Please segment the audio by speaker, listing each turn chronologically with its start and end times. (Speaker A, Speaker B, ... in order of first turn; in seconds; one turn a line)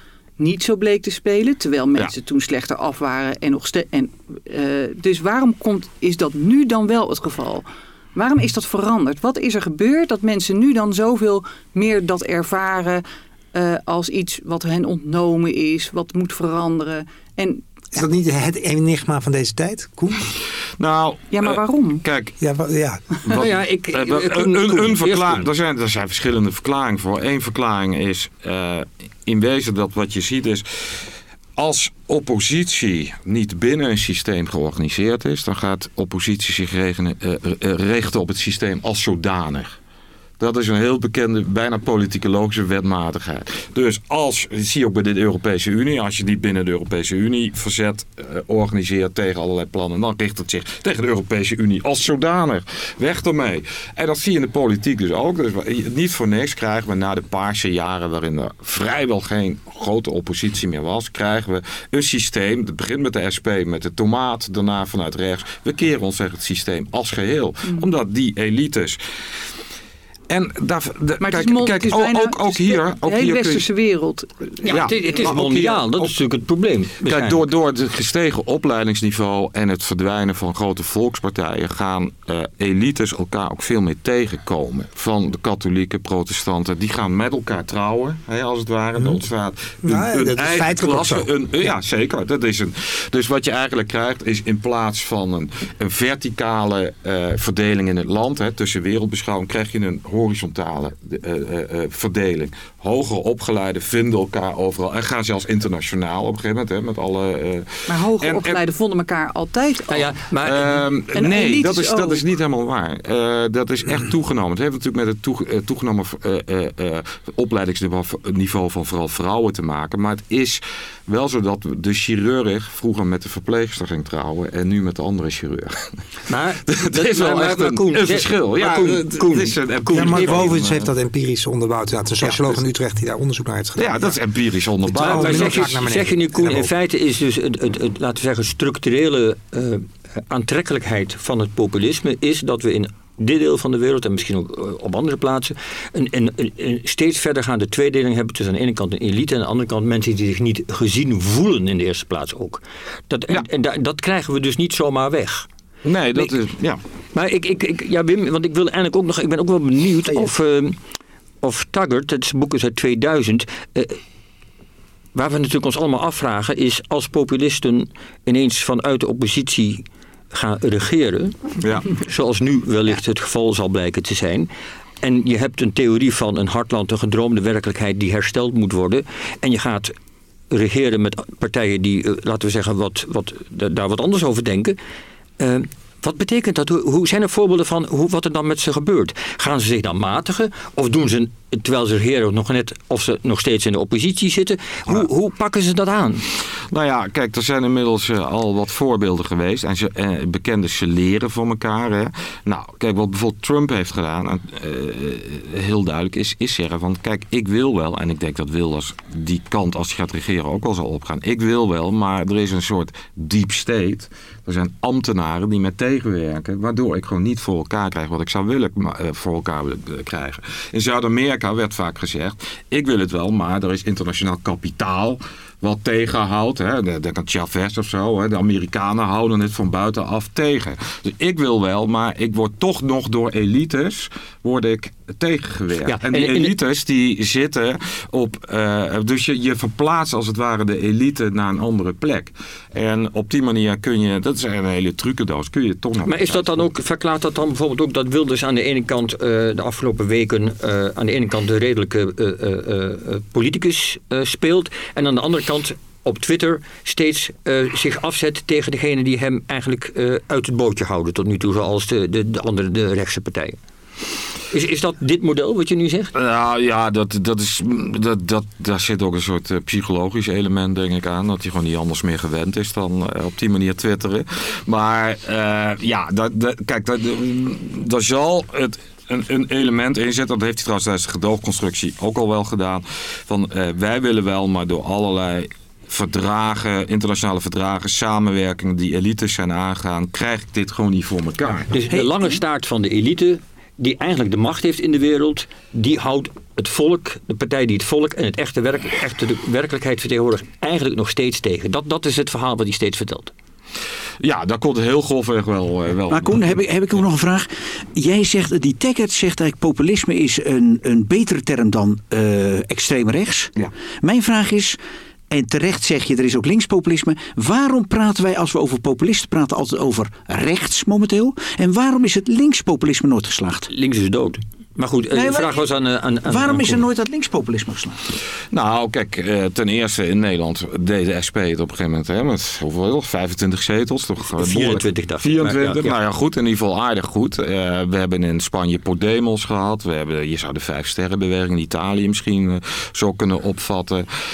Speaker A: 0.4-13.0
Speaker A: 13.5-17.7
Speaker B: 17.9-20.3
Speaker C: 20.8-22.4
Speaker A: 21.3-22.0
Speaker B: 22.4-23.2
Speaker C: 23.3-39.8
Speaker D: 23.3-25.5
Speaker C: 40.4-69.0
Speaker C: 70.3-73.7
Speaker A: 71.2-75.1
Speaker D: 74.7-77.5
Speaker C: 74.7-76.1
Speaker C: 77.1-108.6
Speaker B: 89.8-91.3
Speaker A: 107.9-110.1
Speaker D: 109.9-110.8
Speaker C: 110.4-126.0
Speaker A: 111.1-112.2
Speaker D: 126.3-130.5
Speaker C: 126.7-130.9
Speaker B: 129.9-134.2
Speaker C: 132.2-132.6
Speaker C: 133.8-135.9
Speaker B: 134.8-136.7
Speaker D: 135.0-155.5
Speaker C: 155.8-156.8
Speaker D: 157.1-160.8
Speaker D: 161.4-164.0
Speaker D: 165.2-171.4
Speaker C: 171.6-171.9
Speaker D: 171.9-174.5
Speaker D: 175.0-179.9
Speaker D: 180.5-184.8
Speaker D: 185.4-196.2
Speaker C: 196.7-246.7
Speaker D: 235.9-236.6
Speaker D: 246.1-263.6
Speaker D: 264.5-266.1
Speaker C: 266.1-291.8
Speaker D: 291.7-303.3
Speaker C: 304.2-306.6
Speaker E: 306.1-314.8
Speaker E: 315.3-323.7
Speaker D: 323.7-326.8
Speaker E: 325.1-325.6
Speaker E: 326.3-328.0
Speaker C: 328.5-344.1
Speaker D: 334.3-335.9